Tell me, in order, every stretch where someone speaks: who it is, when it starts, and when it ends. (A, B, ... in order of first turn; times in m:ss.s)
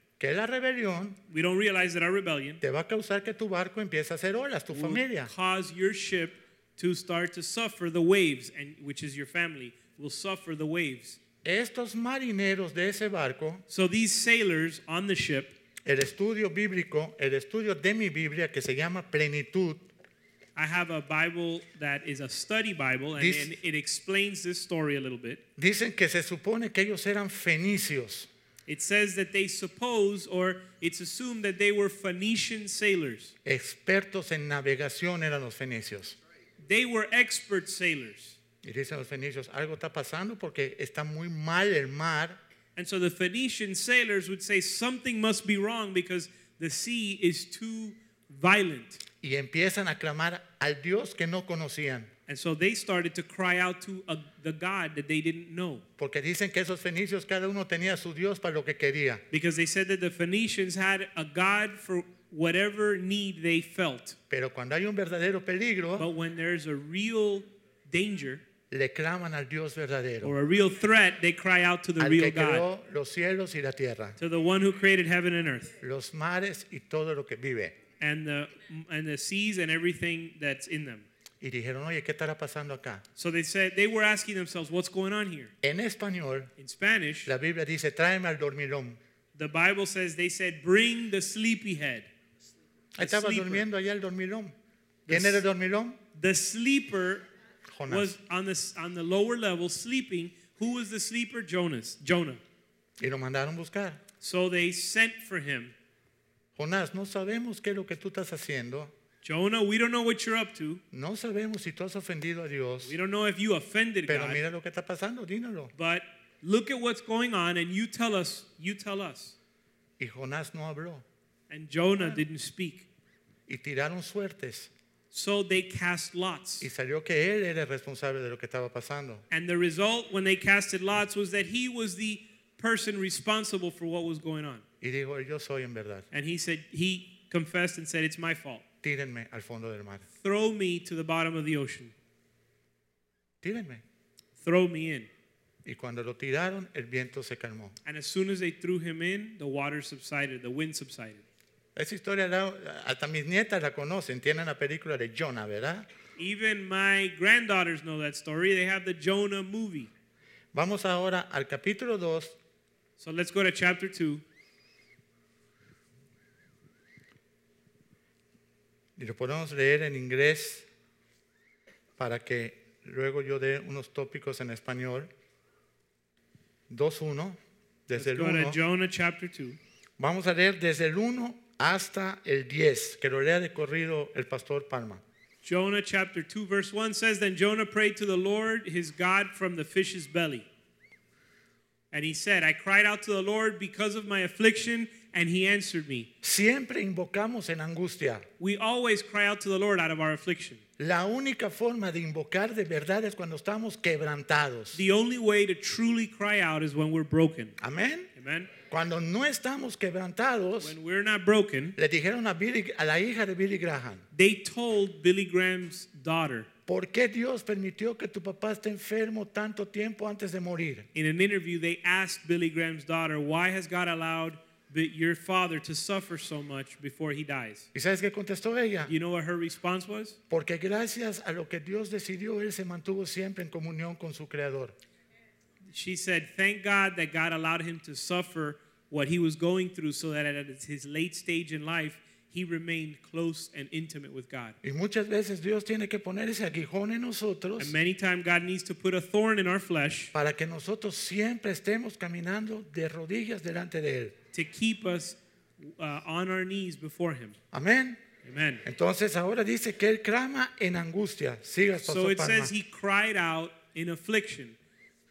0:00.2-0:01.2 A
0:01.3-0:02.6 B
0:02.6-0:05.3 A
0:04.7-0:11.2 B
0:11.4-0:13.6 A
0:13.7-0:15.6 B
0:15.8-0:19.9 A
0:20.6-0:25.4 B
0:23.2-0:23.5 A
0:25.6-0:28.3 A
0:28.7-0:33.4 B
0:33.4-0:36.2 A
0:36.6-0:38.4 B
0:38.6-0:42.4 A
0:42.8-0:49.0 B
0:49.2-0:52.1 A
0:52.3-0:55.8 B
0:56.0-0:59.2 A
0:59.3-1:04.2 B
1:04.3-1:06.1 A
1:06.0-1:08.4 B
1:08.7-1:10.4 A
1:10.2-1:12.7 B
1:12.0-1:14.2 A
1:14.2-1:15.7 B
1:15.8-1:17.8 A
1:18.0-1:21.1 B
1:21.4-1:23.0 A
1:23.2-1:25.5 B
1:25.6-1:26.5 A
1:26.6-1:27.3 B
1:27.3-1:29.0 A
1:29.4-1:32.1 B
1:33.0-1:34.6 A
1:33.0-1:33.7 B
1:35.1-1:35.4 B
1:35.1-1:36.0 A
1:36.2-1:37.2 B
1:37.7-1:38.2 A
1:37.9-1:42.4 B
1:43.0-1:44.0 A
1:44.2-1:45.7 B
1:46.6-1:48.9 A
1:49.2-1:50.8 B
1:50.9-1:53.0 A
1:52.8-1:54.4 B
1:54.1-1:55.7 A
1:55.8-1:59.4 B
2:00.0-2:01.0 A
2:01.5-2:02.9 B
2:03.5-2:04.7 A
2:05.1-2:06.7 B
2:06.6-2:09.2 A
2:09.3-2:14.6 B
2:14.8-2:16.1 A
2:16.1-2:18.6 B
2:18.8-2:20.1 A
2:20.2-2:21.9 B
2:23.4-2:23.8 A
2:24.4-2:25.1 B
2:25.6-2:27.8 A
2:27.8-2:31.2 B
2:31.8-2:35.9 A
2:36.2-2:39.9 B
2:40.5-2:42.4 A
2:43.0-2:44.2 B
2:49.0-2:50.7 A
2:52.0-2:55.1 A
2:56.7-2:58.6 A
2:58.0-2:59.6 B
3:00.0-3:05.0 A
3:05.4-3:10.5 B
3:11.9-3:16.1 B
3:16.2-3:18.3 A
3:18.4-3:20.6 B
3:20.8-3:24.8 A
3:24.7-3:27.6 B
3:27.6-3:28.1 A
3:28.2-3:28.5 B
3:28.7-3:30.8 A
3:30.6-3:31.8 B
3:31.8-3:34.0 A
3:34.1-3:36.5 B
3:36.7-3:40.9 A
3:40.9-3:47.7 B
3:47.7-3:48.9 A
3:48.9-3:50.2 B
3:50.3-3:54.8 A
3:55.7-4:04.6 B
4:04.6-4:07.7 A
4:07.6-4:10.1 B
4:10.1-4:14.2 A
4:14.3-4:17.4 B
4:17.5-4:18.0 A
4:18.2-4:18.6 B
4:18.6-4:22.5 A
4:21.8-4:24.6 B